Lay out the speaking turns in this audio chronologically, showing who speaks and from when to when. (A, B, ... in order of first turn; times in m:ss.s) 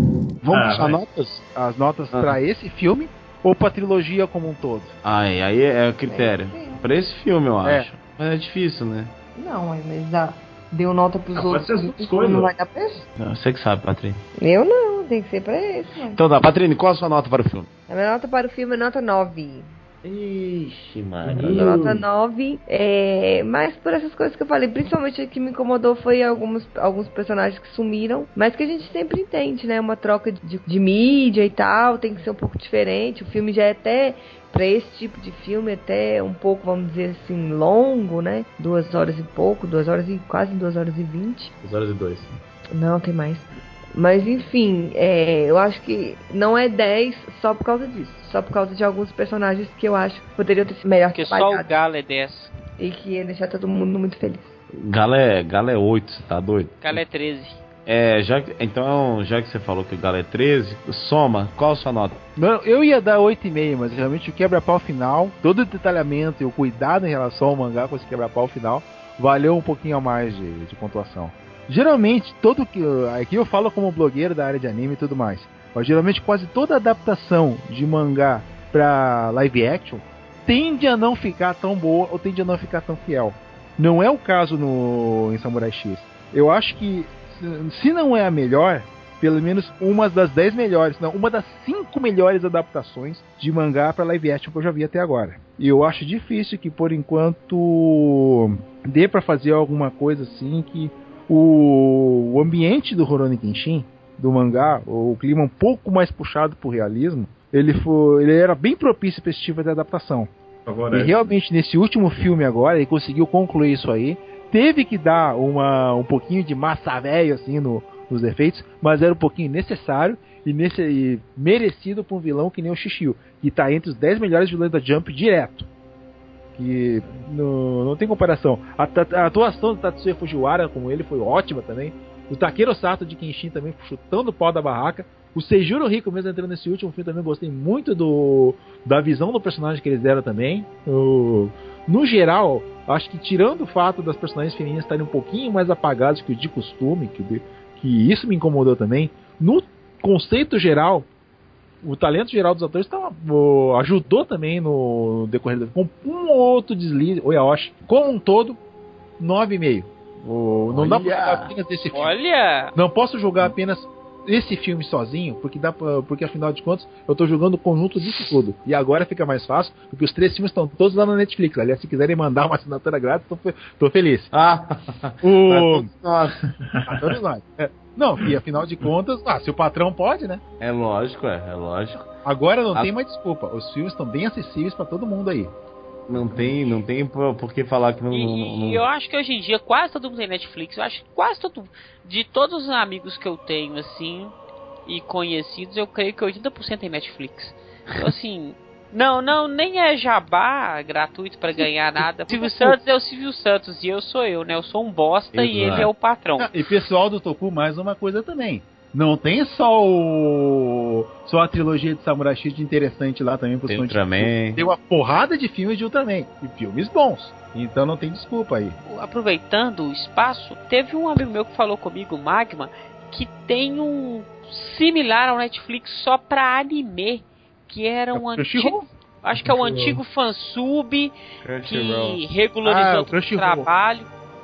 0:00.4-0:01.5 A
0:00.5-0:01.0 B
0:01.6-0:04.9 C
0:02.1-0:02.4 A
0:05.0-0:09.1 A
0:06.1-0:06.9 D
0:09.4-0:13.1 D
0:11.3-0:12.5 B
0:13.2-0:14.2 A
0:14.4-0:16.2 D
0:16.1-0:17.7 A
0:17.9-0:19.7 D
0:20.0-0:22.0 A
0:21.4-0:41.5 D
0:41.6-0:42.3 A
0:42.7-0:51.7 D
0:51.2-0:52.5 E
0:52.8-0:54.5 D
0:54.7-0:57.0 A
0:56.8-0:57.6 E
0:57.9-1:02.2 A
1:02.4-1:50.3 C
1:50.7-1:51.4 B
1:50.9-2:05.7 C
2:06.6-2:31.1 C
2:31.8-2:38.6 C
2:39.2-2:42.1 C
2:40.7-2:41.5 A
2:41.9-2:42.7 E
2:42.8-2:54.3 C
2:54.3-2:56.4 A
2:55.2-2:55.9 C
2:56.6-2:57.0 B
2:56.9-3:00.4 C
3:00.6-3:02.1 A
3:02.2-3:05.5 C
3:06.1-3:08.8 A
3:08.1-3:14.3 E
3:14.9-3:26.5 E
3:22.3-3:22.8 C
3:25.3-3:25.9 A
3:26.4-3:38.8 C
3:33.7-3:34.7 A
3:38.8-3:54.1 E
3:48.2-3:48.9 C
3:49.7-3:50.0 C
3:51.4-3:52.2 A
3:52.6-3:53.7 C